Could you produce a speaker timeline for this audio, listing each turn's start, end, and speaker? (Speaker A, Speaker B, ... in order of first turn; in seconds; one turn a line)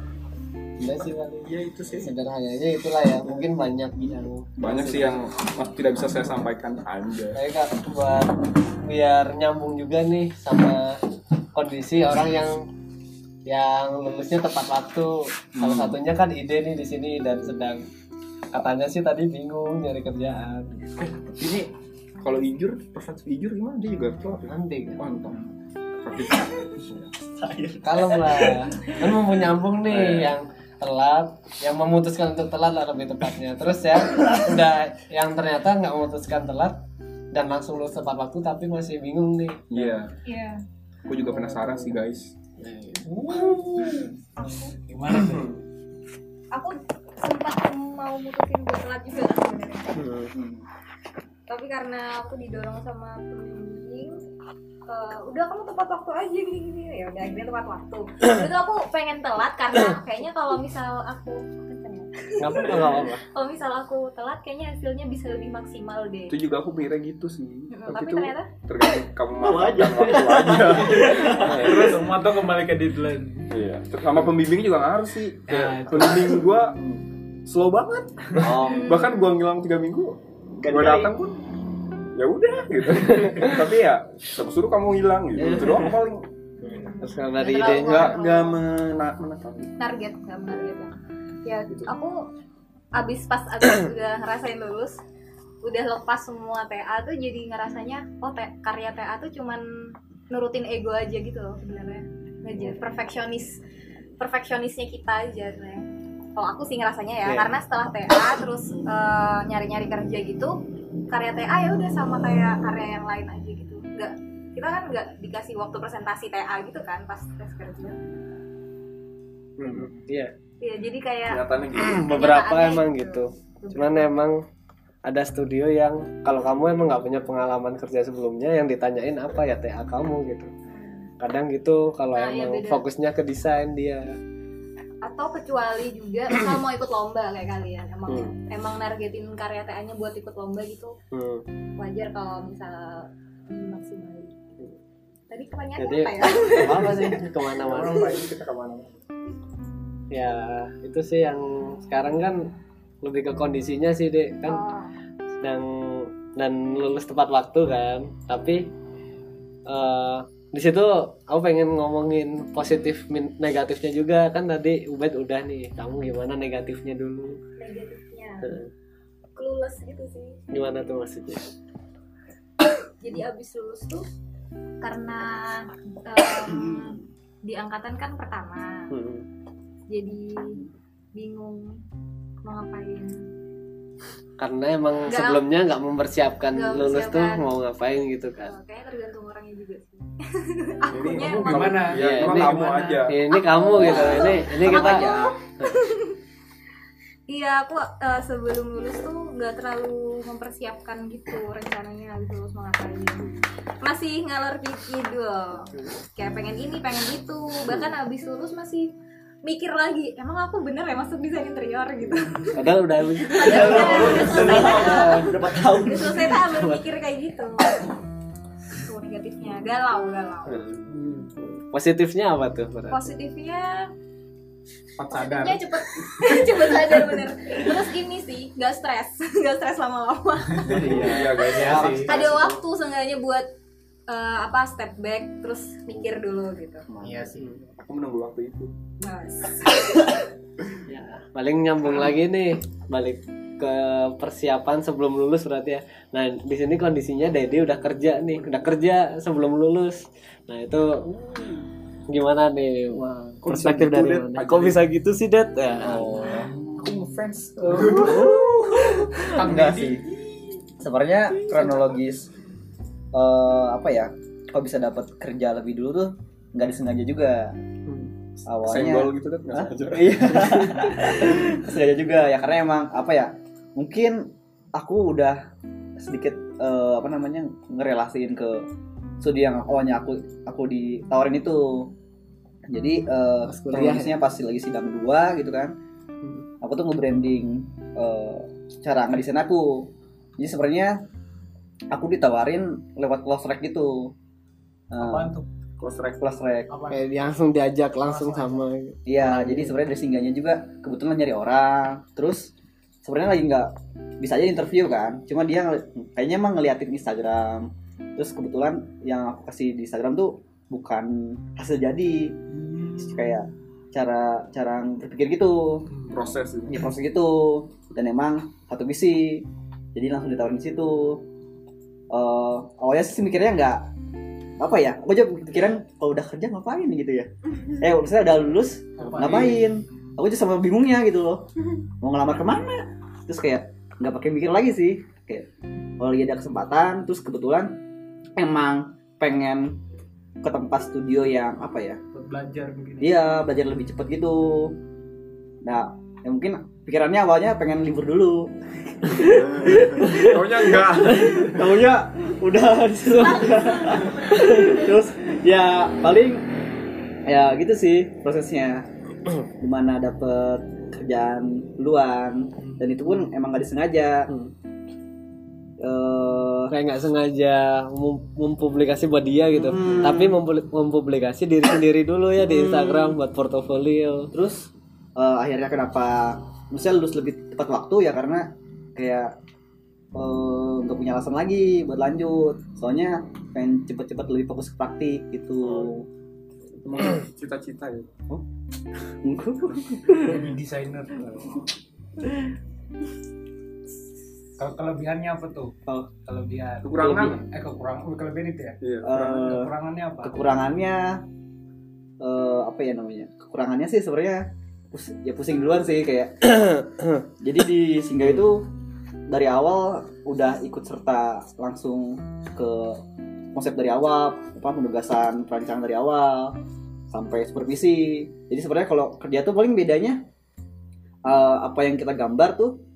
Speaker A: 0.8-5.2
Speaker B: 1.4-2.1
Speaker B: 4.6-7.4
Speaker A: 7.3-11.0
Speaker A: 11.5-12.7
Speaker A: 13.5-17.9
Speaker B: 15.6-16.0
Speaker A: 18.5-21.1
Speaker B: 21.3-21.7
Speaker B: 22.2-25.4
Speaker A: 24.5-25.0
Speaker B: 26.0-27.1
Speaker C: 27.4-28.6
Speaker A: 27.8-36.8
Speaker B: 29.9-30.3
Speaker A: 37.3-39.9
Speaker B: 39.7-40.1
Speaker D: 40.2-40.6
Speaker B: 41.1-42.3
Speaker E: 42.6-44.1
Speaker A: 43.1-44.1
Speaker E: 44.9-45.6
Speaker D: 46.5-50.1
Speaker A: 50.0-50.3
Speaker D: 51.5-54.2
Speaker D: 54.9-66.4
Speaker A: 62.4-63.2
Speaker B: 62.8-63.0
Speaker B: 66.3-72.1
Speaker D: 67.7-68.5
Speaker C: 69.4-71.8
Speaker E: 71.0-73.5
Speaker B: 73.5-81.4
Speaker E: 75.5-76.5
Speaker C: 78.4-78.9
Speaker D: 78.7-79.2
Speaker C: 80.6-81.1
Speaker B: 82.2-86.3
Speaker A: 85.4-85.9
Speaker D: 86.6-88.6
Speaker A: 87.0-88.2
Speaker B: 87.6-89.7
Speaker D: 89.8-92.2
Speaker D: 92.9-95.0
Speaker D: 95.6-99.6
Speaker D: 100.3-103.6
Speaker D: 104.2-105.8
Speaker D: 106.4-110.5
Speaker A: 107.2-107.5
Speaker D: 111.1-118.0
Speaker A: 119.6-120.3
Speaker D: 120.6-124.1
Speaker B: 121.2-122.1
Speaker A: 121.8-124.4
Speaker A: 125.1-130.5
Speaker D: 130.7-131.1
Speaker A: 131.2-134.1
Speaker D: 132.1-132.9
Speaker D: 135.0-140.9
Speaker A: 141.1-141.4
Speaker D: 141.8-144.3
Speaker D: 145.3-147.2
Speaker A: 145.8-148.1
Speaker B: 147.6-149.0
Speaker A: 150.1-152.5
Speaker A: 153.0-154.6
Speaker D: 154.5-154.9
Speaker A: 155.4-158.7
Speaker A: 159.7-167.4
Speaker D: 167.6-168.5
Speaker A: 168.4-168.7
Speaker D: 169.4-170.4
Speaker A: 170.5-171.5
Speaker D: 173.0-174.1
Speaker D: 174.8-178.9
Speaker A: 178.9-179.2
Speaker D: 179.9-180.6
Speaker D: 181.2-181.8
Speaker D: 182.4-183.2
Speaker A: 184.4-188.5
Speaker D: 185.1-185.4
Speaker D: 186.5-187.4
Speaker D: 188.4-191.9
Speaker B: 190.9-193.2
Speaker E: 191.2-193.1
Speaker A: 191.9-195.1
Speaker D: 193.3-196.2
Speaker C: 193.8-195.3
Speaker D: 197.3-203.3
Speaker D: 203.8-208.9
Speaker D: 209.4-212.5
Speaker A: 212.5-215.3
Speaker D: 213.3-217.7
Speaker C: 213.3-216.5
Speaker D: 218.7-220.6
Speaker A: 221.7-223.1
Speaker D: 222.9-223.9
Speaker E: 225.0-225.7
Speaker D: 225.1-233.5
Speaker E: 230.5-232.2
Speaker B: 230.6-232.5
Speaker D: 234.1-236.9
Speaker B: 236.9-238.7
Speaker E: 237.0-237.6
Speaker D: 239.0-240.2
Speaker A: 240.9-251.1
Speaker A: 252.1-256.4
Speaker C: 253.1-254.4
Speaker B: 253.4-254.8
Speaker B: 255.9-258.5
Speaker A: 257.8-259.1
Speaker C: 257.9-258.6
Speaker E: 259.3-260.2
Speaker C: 259.4-260.0
Speaker C: 260.8-262.3
Speaker C: 263.1-267.5
Speaker C: 268.4-275.4
Speaker B: 268.6-270.7
Speaker C: 276.0-278.6
Speaker C: 279.2-281.9
Speaker C: 282.7-285.7
Speaker A: 283.4-284.1
Speaker C: 286.6-291.0
Speaker C: 291.9-294.1
Speaker C: 294.9-295.3
Speaker E: 295.0-295.5
Speaker C: 295.8-296.7
Speaker B: 295.9-296.2
Speaker E: 296.7-297.1
Speaker A: 296.9-299.8
Speaker E: 298.1-298.6
Speaker C: 299.1-302.5
Speaker C: 303.0-312.4
Speaker C: 313.0-315.9
Speaker B: 316.1-316.8
Speaker C: 316.7-321.2
Speaker C: 322.1-323.9
Speaker C: 324.6-331.4
Speaker E: 329.0-329.8
Speaker C: 332.0-335.4
Speaker C: 336.0-337.8
Speaker C: 338.4-339.8
Speaker C: 340.4-342.0
Speaker E: 342.1-343.2
Speaker C: 343.0-344.8
Speaker C: 345.6-356.5
Speaker B: 350.0-351.6
Speaker D: 353.4-354.0
Speaker C: 357.3-358.8
Speaker C: 359.6-364.3
Speaker C: 365.8-366.7
Speaker A: 366.7-374.3
Speaker C: 369.5-370.4
Speaker C: 374.3-379.3
Speaker C: 380.1-386.0
Speaker B: 386.8-388.3
Speaker C: 389.2-390.5
Speaker E: 390.2-391.5
Speaker E: 394.6-395.7
Speaker E: 396.3-400.4
Speaker B: 396.8-397.5
Speaker B: 398.8-399.5
Speaker C: 399.0-401.2
Speaker C: 402.2-406.6
Speaker C: 407.4-408.7
Speaker C: 409.3-413.0
Speaker C: 413.5-416.6
Speaker C: 417.1-420.2
Speaker C: 421.3-422.8